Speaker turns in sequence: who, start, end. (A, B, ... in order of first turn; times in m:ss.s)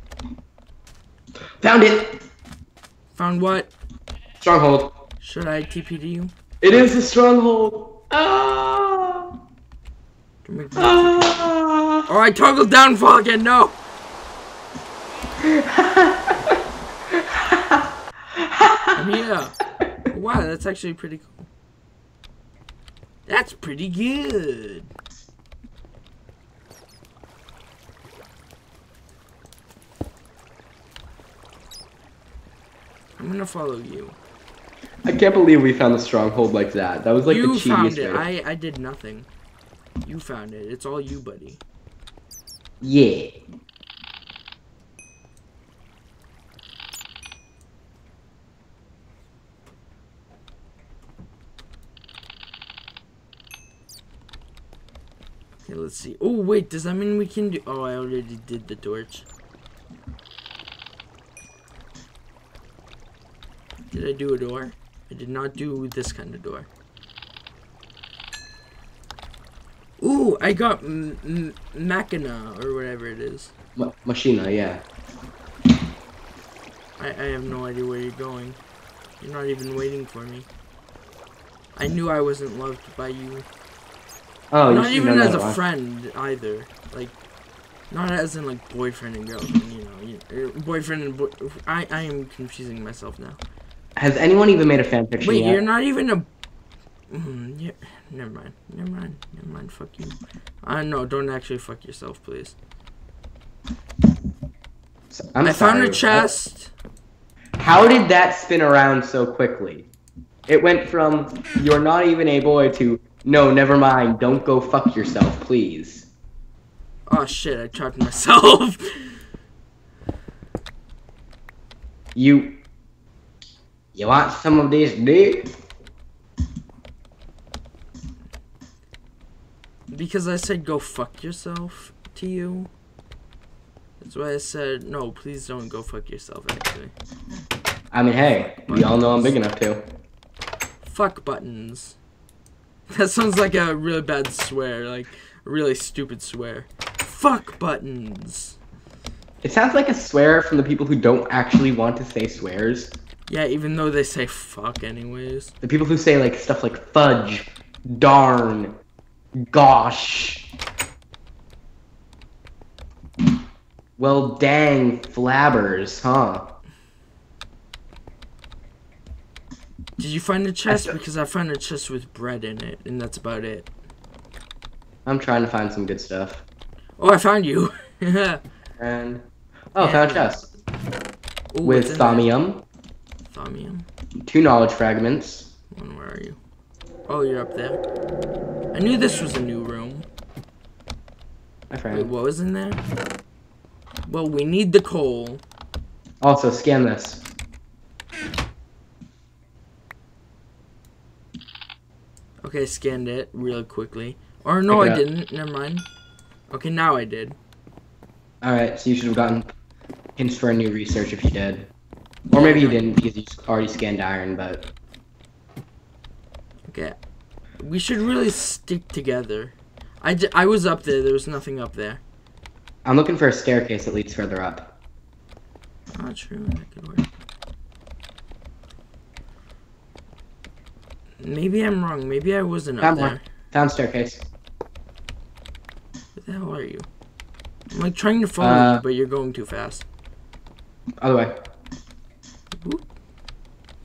0:01.6-0:02.2 A
0:03.1-0:03.7 B
0:04.4-0:04.9 A
0:05.2-0:06.3 B
0:06.6-0:09.3 A
0:10.4-0:11.4 B
0:10.8-0:12.1 A
0:12.1-0:13.8 B
0:15.4-0:16.6 A
0:17.1-0:19.0 A
0:18.9-0:21.5 B
0:23.2-0:24.9 B
0:33.2-0:34.2 B
0:35.0-0:38.2 A
0:37.2-0:39.3 B
0:40.0-0:41.6 B
0:42.8-0:43.4 A
0:55.6-0:59.2 B
1:03.9-1:06.7 B
1:10.0-1:13.5 B
1:13.8-1:14.8 A
1:17.0-1:18.6 B
1:19.2-1:20.5 B
1:21.8-1:23.5 B
1:24.5-1:25.6 A
1:24.7-1:27.1 B
1:27.9-1:33.4 B
1:34.0-1:35.6 A
1:35.2-1:36.3 B
1:37.1-1:42.6 B
1:45.1-1:46.3 A
1:45.4-1:46.7 B
1:47.6-1:49.9 A
1:50.5-1:56.1 A
1:57.1-1:59.2 B
2:02.1-2:02.6 A
2:03.9-2:05.5 A
2:09.9-2:12.7 B
2:14.0-2:16.9 B
2:17.9-2:19.8 A
2:18.7-2:19.3 B
2:20.8-2:22.0 B
2:22.9-2:28.6 B
2:29.4-2:33.0 A
2:33.3-2:35.5 B
2:35.6-2:38.7 A
2:39.5-2:40.5 A
2:44.0-2:46.5 A
2:50.0-2:53.7 B
2:50.7-2:50.9 A
2:55.0-2:56.4 A
2:57.0-2:58.4 B
2:58.8-3:00.4 A
2:59.8-3:00.5 B
3:01.5-3:02.3 B
3:01.6-3:02.6 A
3:03.3-3:03.8 B
3:04.2-3:05.5 A
3:05.7-3:06.4 B
3:07.1-3:07.8 B
3:08.7-3:10.0 B
3:11.7-3:12.1 A
3:11.9-3:12.8 B
3:14.0-3:15.4 B
3:16.2-3:17.2 A
3:22.4-3:25.8 B
3:24.7-3:25.0 A
3:26.5-3:27.4 B
3:28.4-3:29.5 A
3:30.2-3:31.7 A
3:32.3-3:32.9 B
3:32.3-3:34.7 A
3:36.7-3:37.0 B
3:37.6-3:42.0 B
3:42.8-3:44.8 A
3:45.9-3:47.0 B
3:51.2-3:53.2 B
3:52.8-3:54.3 A
3:56.2-3:56.9 B
3:57.7-3:59.8 B
3:58.4-3:58.8 A
4:01.0-4:01.4 A
4:02.6-4:02.8 B